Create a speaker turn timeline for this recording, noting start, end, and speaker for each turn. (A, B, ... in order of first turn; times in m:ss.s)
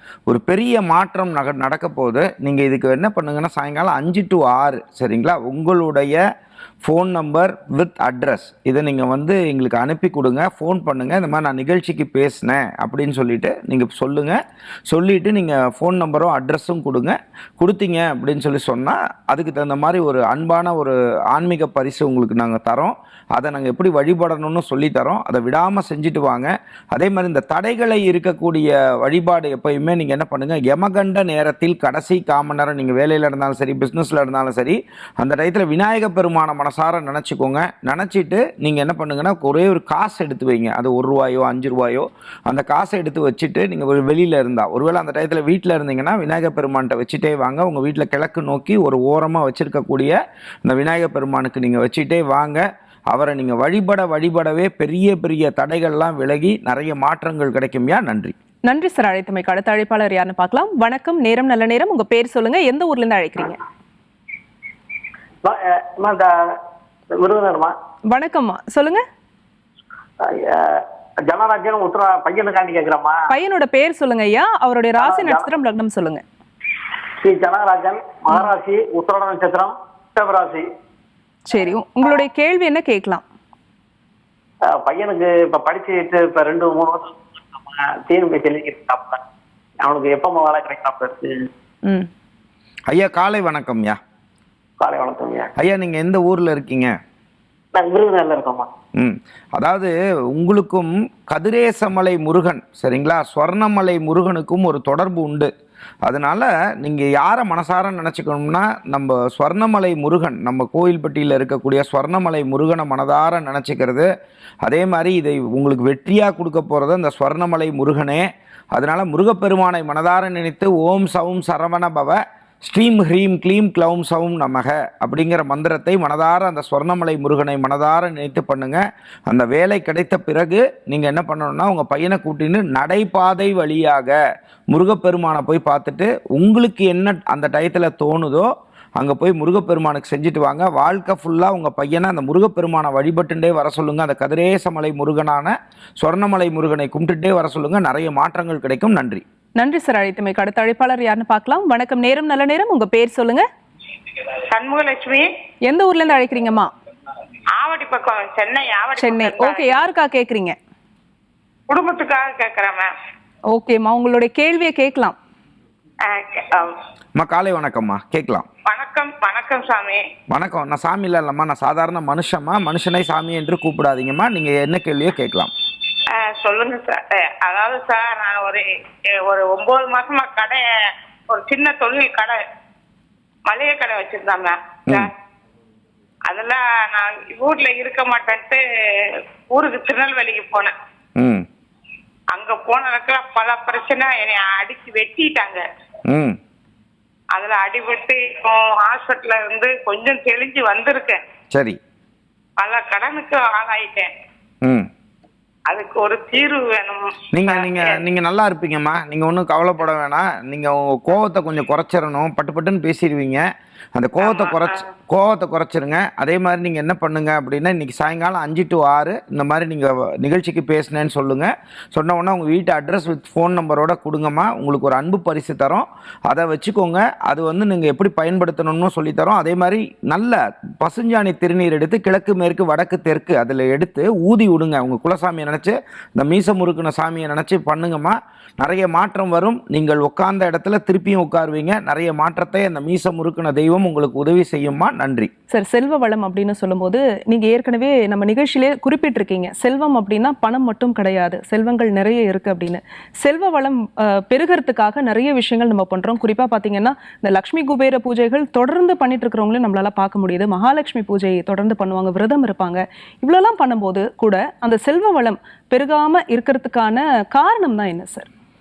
0:00.3-0:06.2 A
0:06.8-0:14.4 A
0:14.9-0:58.3 A
0:58.7-1:03.6 B
1:05.4-1:06.3 C
1:07.2-1:07.7 C
1:08.1-1:09.0 B
1:10.3-1:13.2 C
1:13.3-1:16.2 B
1:15.0-1:15.5 C
1:17.2-1:20.7 C
1:21.5-1:23.2 B
1:24.8-1:29.2 C
1:29.8-1:31.5 C
1:32.9-1:34.0 A
1:34.8-1:35.5 C
1:35.6-1:36.9 A
1:37.7-1:38.7 C
1:39.0-1:45.5 A
1:46.0-1:54.1 A
1:54.6-2:14.2 A
2:14.7-2:29.2 A
2:29.6-2:33.4 B
2:34.5-2:35.3 D
2:35.7-2:36.7 B
2:37.5-2:39.8 D
2:39.0-2:40.6 B
2:41.7-2:42.9 D
2:43.5-2:45.2 B
2:46.0-2:46.8 D
2:47.2-2:48.5 A
2:48.7-2:50.0 D
2:50.3-2:55.5 A
2:56.1-2:58.6 D
2:59.2-3:00.6 D
3:01.3-3:02.4 D
3:03.5-3:05.1 D
3:06.3-3:08.6 D
3:09.5-3:10.7 D
3:11.2-3:11.5 A
3:12.3-3:15.6 D
3:16.1-3:16.4 A
3:17.3-3:21.2 D
3:21.5-3:21.8 A
3:22.6-3:24.1 D
3:24.6-3:24.9 A
3:25.7-3:28.0 D
3:27.3-4:05.3 A
3:34.2-3:34.8 D
4:05.5-4:28.3 B